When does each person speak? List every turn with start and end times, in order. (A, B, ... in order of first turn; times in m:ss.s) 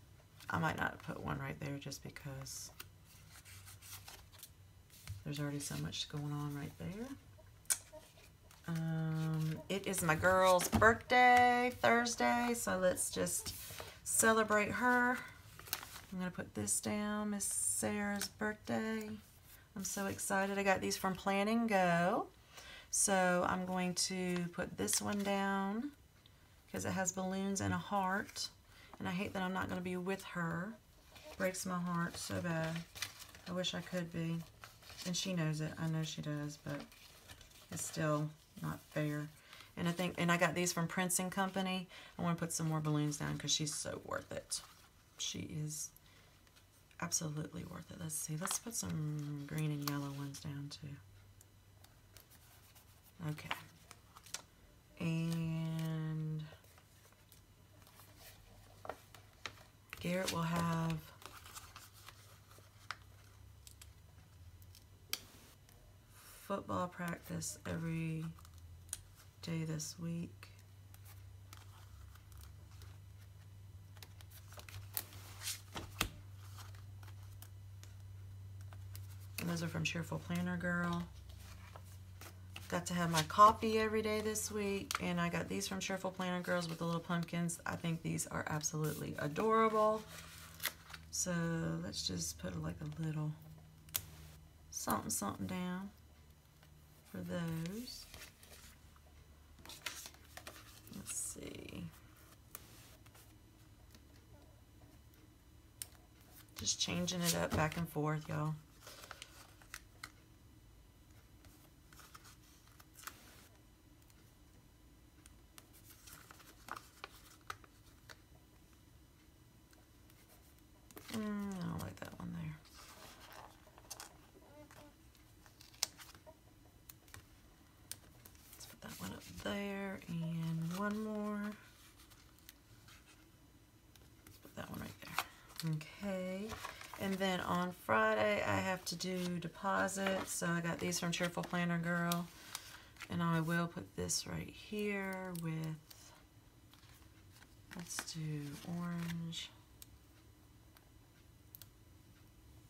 0:00.5-0:02.7 A
0:05.2-0:07.2 A
0:08.7-0:15.2 A
0:16.1-0:19.2 A
0:19.7-0:22.3 A
0:22.9-0:25.9 A
0:26.7-0:30.8 A
0:31.4-0:32.8 A
0:33.4-0:34.4 A
0:35.0-0:36.9 A
0:37.7-0:44.6 A
0:45.2-0:45.9 A
0:47.0-0:51.0 A
0:53.2-0:53.6 A
0:55.0-0:56.5 A
1:00.0-1:01.1 A
1:06.1-1:08.4 A
1:09.4-1:10.6 A
1:19.4-1:21.1 A
1:22.7-1:30.1 A
1:31.1-1:33.4 A
1:34.7-1:35.9 A
1:37.1-1:38.1 A
1:40.9-1:41.9 A
1:46.6-1:48.6 A
2:01.1-2:02.6 A
2:08.6-2:11.6 A
2:14.4-2:22.3 A
2:23.1-2:26.1 A
2:27.7-2:29.5 A